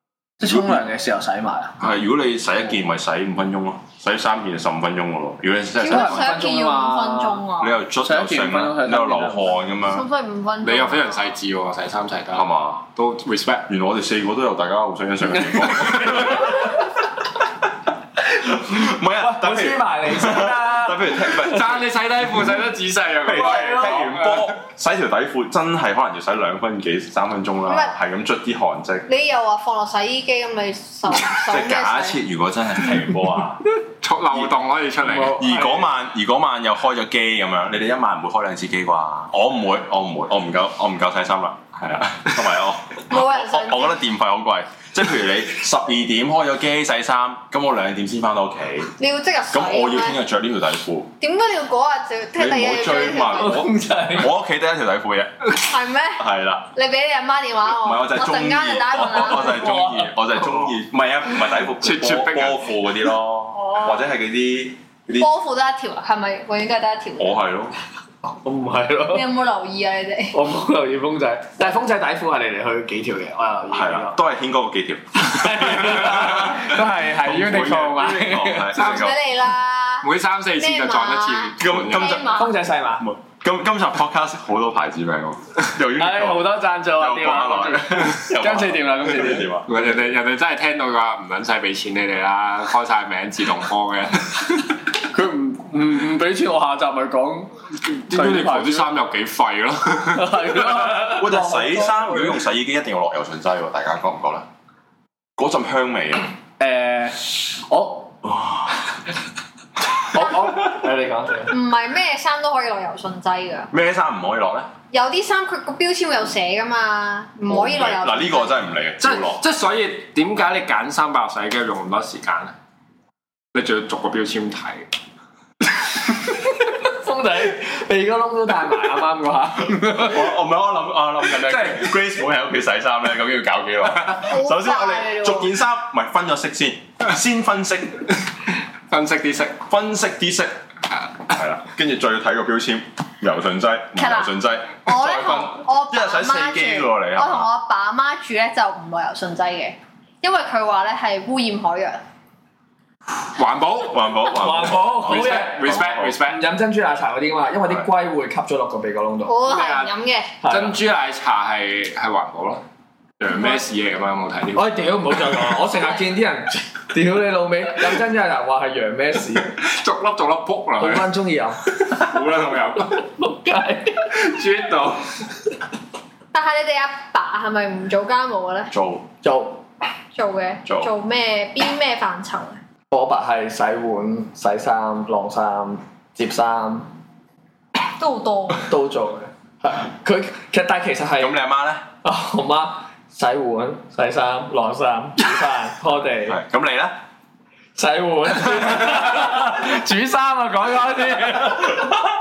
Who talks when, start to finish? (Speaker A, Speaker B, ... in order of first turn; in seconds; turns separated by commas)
Speaker A: 0.4-1.8, Speaker B: 1.8-6.4, Speaker C: 5.8-7.8, Speaker A: 5.8-7.4, Speaker B: 7.6-10.1, Speaker A: 8.0-9.6, Speaker C: 9.8-11.3, Speaker D: 10.6-13.7, Speaker B: 12.3-12.8, Speaker B: 13.7-16.8, Speaker B: 18.3-22.0, Speaker A: 19.1-21.5, Speaker D: 21.3-24.5, Speaker B: 23.2-29.1, Speaker A: 23.4-24.1, Speaker C: 27.7-27.9, Speaker C: 29.1-32.2, Speaker B: 31.2-33.6, Speaker D: 34.0-35.5, Speaker A: 35.0-35.9, Speaker B: 35.3-48.9, Speaker C: 43.1-44.0, Speaker C: 49.0-50.2, Speaker B: 49.5-51.1, Speaker C: 51.2-53.6, Speaker B: 52.3-55.5, Speaker A: 53.4-54.3, Speaker C: 55.5-59.7, Speaker B: 56.2-56.7, Speaker B: 57.8-65.3, Speaker A: 59.4-60.1, Speaker D: 61.8-62.7, Speaker C: 63.6-64.0, Speaker C: 65.2-67.4, Speaker B: 67.2-67.7, Speaker A: 68.2-69.3, Speaker C: 69.1-70.4, Speaker A: 70.3-74.2, Speaker B: 73.7-79.2, Speaker A: 75.2-78.8, Speaker C: 78.7-82.6, Speaker D: 80.0-82.2, Speaker B: 81.6-89.8, Speaker A: 82.3-83.1, Speaker A: 86.0-89.5, Speaker D: 89.7-94.5, Speaker A: 95.0-97.5, Speaker A: 98.0-98.9, Speaker D: 98.1-100.7, Speaker A: 100.1-102.3, Speaker B: 100.8-104.5, Speaker B: 105.4-106.3, Speaker A: 106.6-108.2, Speaker B: 108.2-108.7, Speaker A: 110.0-111.5, Speaker C: 111.5-113.7, Speaker B: 113.7-114.7, Speaker C: 114.9-118.6, Speaker B: 117.5-119.4, Speaker D: 119.0-122.5, Speaker D: 123.5-124.9, Speaker A: 126.8-130.2, Speaker B: 129.8-138.1, Speaker D: 131.3-131.9, Speaker C: 134.2-135.5, Speaker D: 138.9-139.6, Speaker B: 139.7-140.6, Speaker B: 141.3-147.5, Speaker C: 143.9-144.3, Speaker C: 144.8-152.0, Speaker D: 153.3-154.3, Speaker B: 153.9-156.2, Speaker A: 154.3-159.4, Speaker D: 154.9-156.4, Speaker C: 159.2-160.3, Speaker D: 159.4-159.9, Speaker A: 160.4-160.8, Speaker D: 160.5-162.6, Speaker D: 163.2-165.0, Speaker A: 164.5-169.5, Speaker D: 169.6-171.1, Speaker A: 170.8-171.7, Speaker D: 171.7-173.0, Speaker A: 173.1-174.2, Speaker D: 174.1-175.1, Speaker C: 176.3-178.7, Speaker B: 178.7-179.1, Speaker A: 179.2-179.6, Speaker C: 180.1-182.6, Speaker B: 180.7-180.9, Speaker A: 182.9-186.9, Speaker C: 187.9-188.7, Speaker A: 188.6-191.4, Speaker B: 191.2-191.8, Speaker A: 192.0-196.4, Speaker B: 196.2-196.9, Speaker A: 197.8-202.0